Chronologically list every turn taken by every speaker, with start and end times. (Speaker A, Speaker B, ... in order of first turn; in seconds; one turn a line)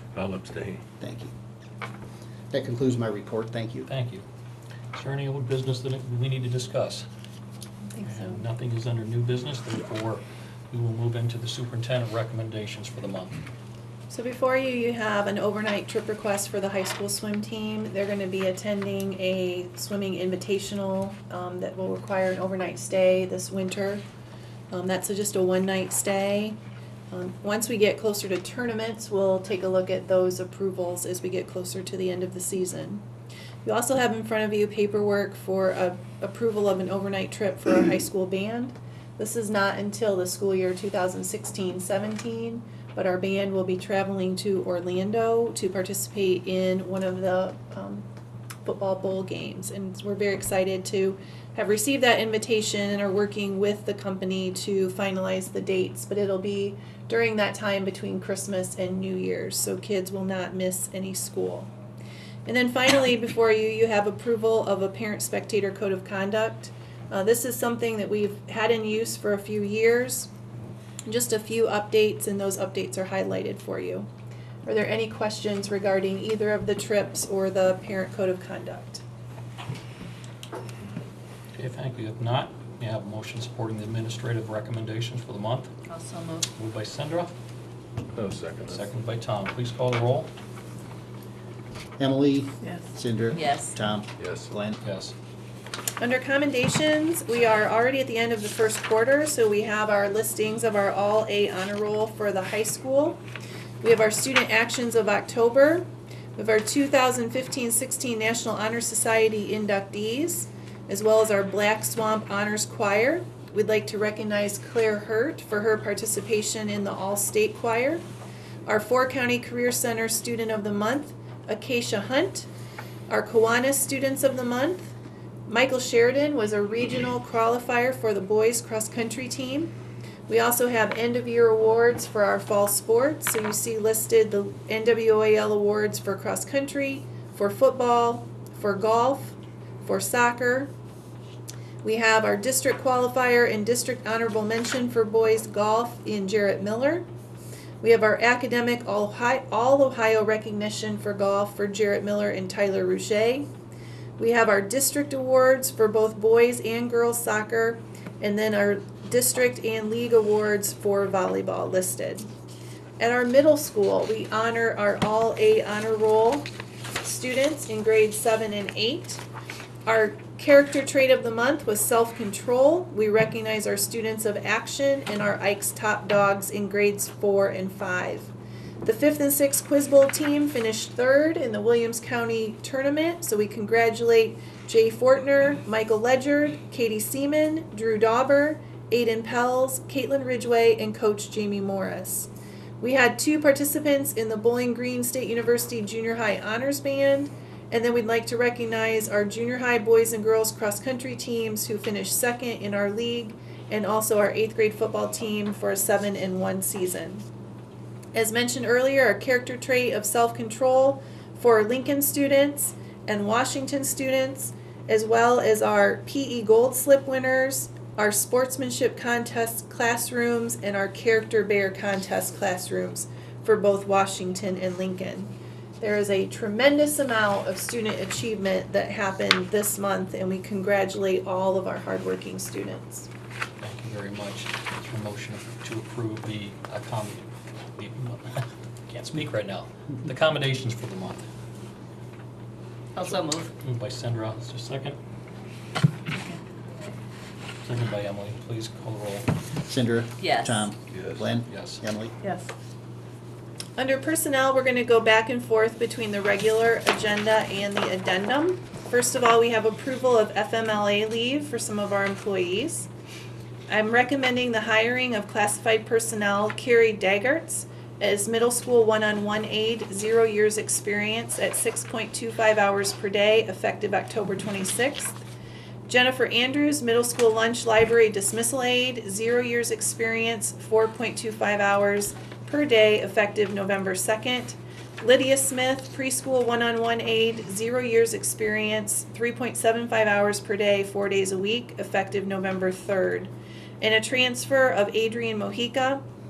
Speaker A: 0.1-0.8
Speaker B: 1.0-1.3
Speaker B: 2.5-3.9
Speaker C: 3.9-4.2
Speaker C: 4.9-7.0
Speaker D: 7.8-8.4
Speaker C: 8.0-13.4
Speaker D: 14.1-24.0
Speaker D: 24.7-26.6
Speaker D: 27.1-33.0
Speaker D: 33.6-48.0
Speaker D: 48.6-61.7
Speaker D: 62.4-70.3
Speaker D: 71.0-74.1
Speaker D: 74.6-79.0
Speaker C: 81.5-85.7
Speaker E: 85.9-86.5
Speaker C: 86.6-87.3
Speaker A: 88.1-88.9
Speaker C: 88.7-90.3
Speaker B: 92.0-94.8
Speaker E: 93.4-93.7
Speaker A: 94.2-94.5
Speaker C: 94.8-95.1
Speaker D: 96.0-103.2
Speaker D: 103.8-118.0
Speaker D: 118.7-122.5
Speaker D: 123.1-124.9
Speaker D: 125.5-129.7
Speaker D: 130.3-140.7
Speaker D: 141.8-147.0
Speaker D: 147.8-153.5
Speaker D: 154.2-162.3
Speaker D: 163.0-169.2
Speaker D: 169.8-178.3
Speaker D: 178.8-207.2
Speaker D: 208.1-233.1
Speaker C: 233.6-241.2
Speaker E: 242.9-243.5
Speaker C: 243.6-245.0
Speaker E: 246.3-246.9
Speaker C: 247.6-249.3
Speaker B: 249.7-252.2
Speaker E: 250.2-250.6
Speaker A: 250.9-251.3
Speaker C: 251.5-251.8
Speaker D: 253.8-262.9
Speaker D: 263.7-275.2
Speaker D: 275.9-296.0